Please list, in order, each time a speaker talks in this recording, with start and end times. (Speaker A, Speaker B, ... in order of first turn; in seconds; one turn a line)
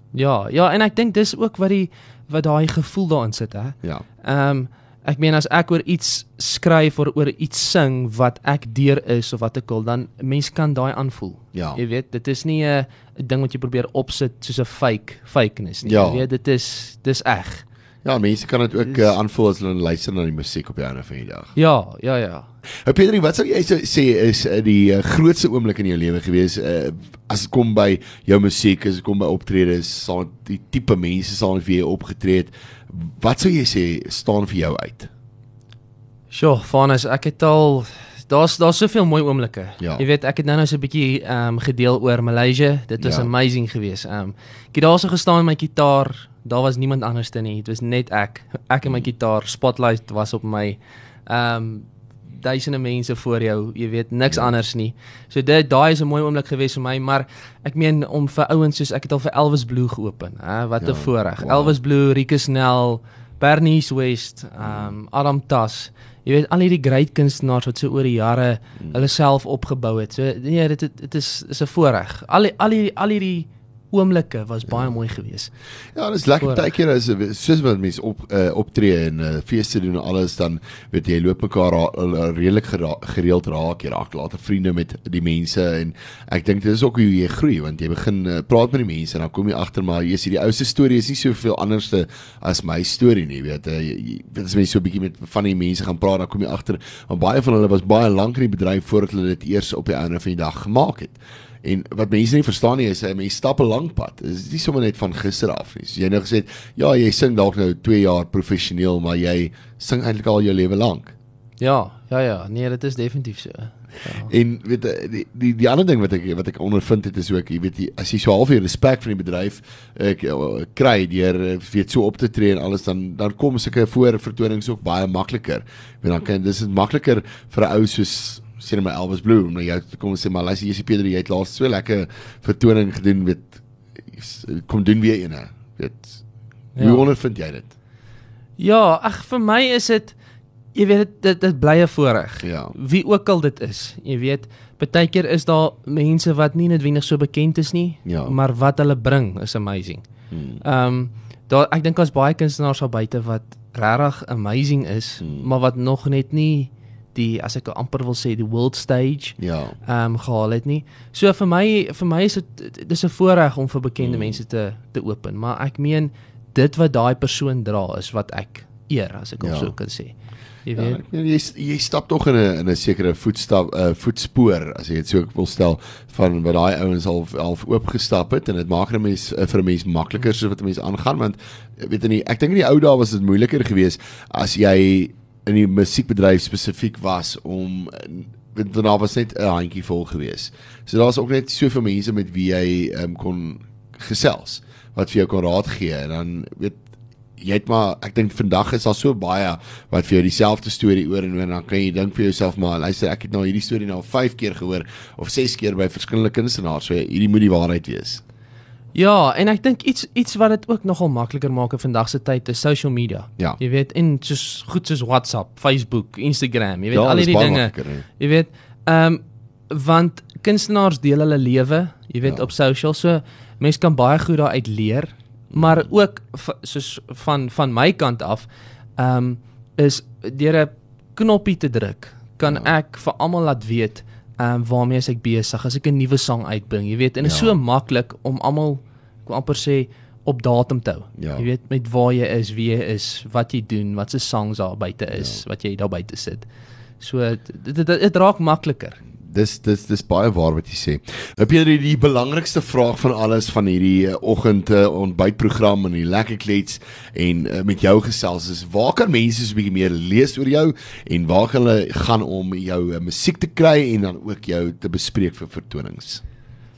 Speaker A: 0.1-17.6
Speaker B: 11.5-11.8
Speaker B: 15.8-16.3
Speaker B: 18.0-21.5
Speaker A: 18.8-19.1
Speaker A: 21.5-22.5
Speaker B: 22.9-35.1
Speaker A: 36.3-75.5
Speaker B: 39.8-40.0
Speaker B: 43.0-43.3
Speaker B: 54.3-54.5
Speaker B: 60.8-61.8
Speaker B: 64.6-64.9
Speaker B: 74.7-74.9
Speaker B: 75.9-111.1
Speaker A: 76.4-76.7
Speaker A: 111.6-114.3
Speaker B: 114.2-136.2
Speaker A: 136.8-137.1
Speaker B: 136.8-137.7
Speaker A: 138.6-140.1
Speaker A: 140.7-150.0
Speaker B: 142.4-142.7
Speaker B: 148.1-148.3
Speaker B: 150.3-150.6
Speaker A: 150.6-170.1
Speaker B: 155.2-155.5
Speaker B: 159.4-159.8
Speaker B: 164.0-164.4
Speaker B: 169.4-169.7
Speaker A: 170.6-171.0
Speaker B: 170.7-196.8
Speaker B: 197.4-208.2
Speaker A: 208.9-246.4
Speaker B: 216.9-218.0
Speaker B: 222.2-222.5
Speaker B: 225.5-225.9
Speaker B: 237.2-237.6
Speaker B: 241.2-241.5
Speaker B: 245.1-245.4
Speaker A: 247.0-249.0
Speaker B: 249.2-266.2